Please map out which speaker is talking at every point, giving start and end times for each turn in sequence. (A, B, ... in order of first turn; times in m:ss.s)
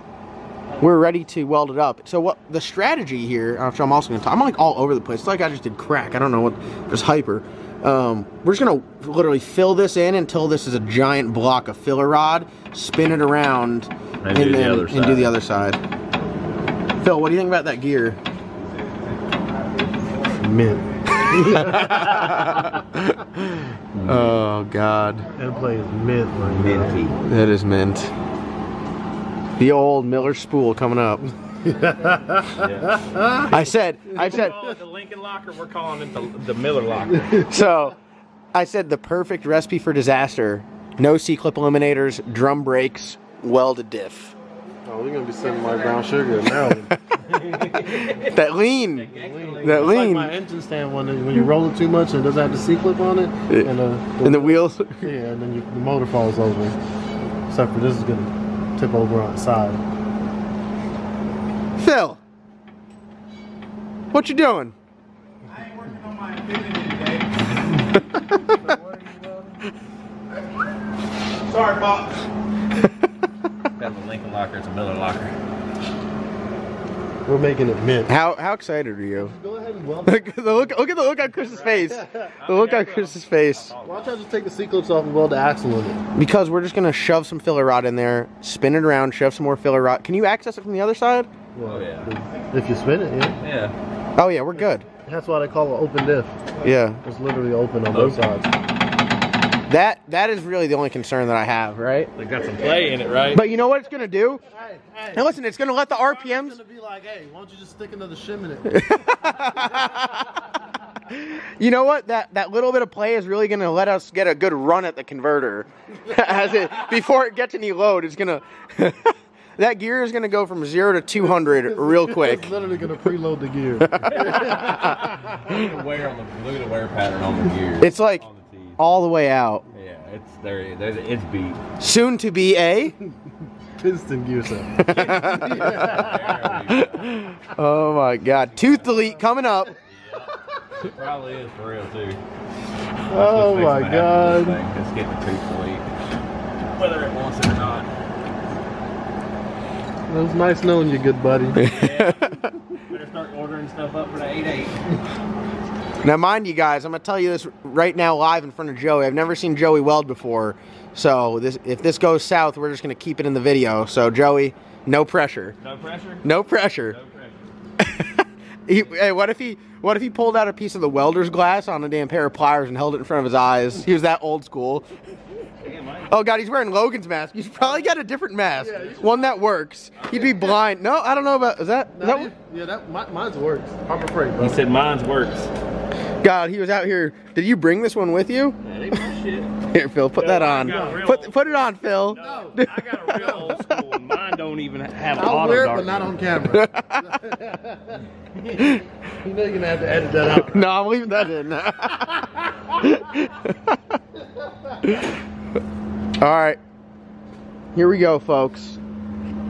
0:00.8-0:15.8 A
0:14.2-0:15.3 B
0:17.0-0:18.2 A
0:20.4-0:20.8 C
0:21.1-0:25.3 A
0:21.9-0:22.6 B
0:24.0-0:24.3 B
0:25.4-0:27.0 C
0:26.5-0:27.2 B
0:27.2-0:28.1 A
0:29.6-0:31.2 A
0:31.6-0:33.5 C
0:32.6-0:33.0 B
0:33.5-0:34.6 A
0:34.2-0:37.5 B
0:37.4-0:38.0 A
0:38.5-0:44.4 A
0:44.9-0:46.9 C
0:46.8-0:50.4 A
0:47.4-0:48.3 B
0:48.9-0:50.0 B
0:49.1-0:56.8 C
0:54.2-0:55.1 A
0:57.5-0:59.8 C
1:01.8-1:02.2 A
1:04.1-1:04.8 A
1:05.6-1:07.9 B
1:08.2-1:08.5 A
1:08.6-1:09.6 C
1:11.5-1:12.3 B
1:13.8-1:15.4 B
1:17.3-1:18.1 C
1:18.1-1:19.3 A
1:19.2-1:20.8 C
1:20.1-1:23.7 A
1:21.2-1:24.2 B
1:21.9-1:22.3 C
1:23.8-1:26.0 C
1:26.2-1:31.3 A
1:31.5-1:33.4 C
1:31.6-1:32.1 B
1:33.4-1:33.8 B
1:34.2-1:34.9 A
1:35.1-1:36.4 C
1:36.6-1:37.0 A
1:37.0-1:38.5 C
1:37.9-1:38.2 B
1:39.7-1:42.1 A
1:42.2-1:43.4 B
1:43.3-1:44.4 A
1:44.5-1:45.3 C
1:45.1-1:46.6 A
1:45.9-1:48.8 C
1:48.7-1:50.4 A
1:51.1-2:02.6 A
2:01.2-2:05.0 C
2:03.8-2:05.6 A
2:04.1-2:08.8 B
2:07.8-2:08.2 A
2:08.8-2:09.6 A
2:09.7-2:11.6 B
2:11.8-2:12.9 A
2:13.8-2:16.7 C
2:14.8-2:16.0 A
2:14.9-2:17.3 B
2:16.7-2:19.7 A
2:18.3-2:19.0 B
2:19.9-2:22.2 B
2:23.0-2:25.9 B
2:23.1-2:24.6 C
2:26.7-2:27.9 B
2:30.1-2:31.6 C
2:31.6-2:32.5 A
2:31.6-2:34.8 B
2:36.0-2:45.6 A
2:45.6-2:46.2 B
2:46.2-2:47.0 A
2:46.9-2:47.6 B
2:47.8-2:54.9 A
2:55.6-2:56.1 B
2:56.1-3:02.3 A
2:58.6-2:59.3 C
3:00.0-3:00.6 B
3:02.0-3:04.6 C
3:04.4-3:05.5 B
3:06.2-3:08.6 A
3:08.6-3:09.5 B
3:09.7-3:12.9 A
3:10.2-3:16.2 B
3:10.6-3:11.0 C
3:12.2-3:12.6 C
3:13.1-3:13.6 C
3:15.1-3:18.0 C
3:16.5-3:17.2 A
3:18.5-3:18.8 A
3:18.7-3:20.7 C
3:20.4-3:23.8 A
3:24.8-3:25.1 A
3:26.2-3:26.6 A
3:27.8-3:28.8 A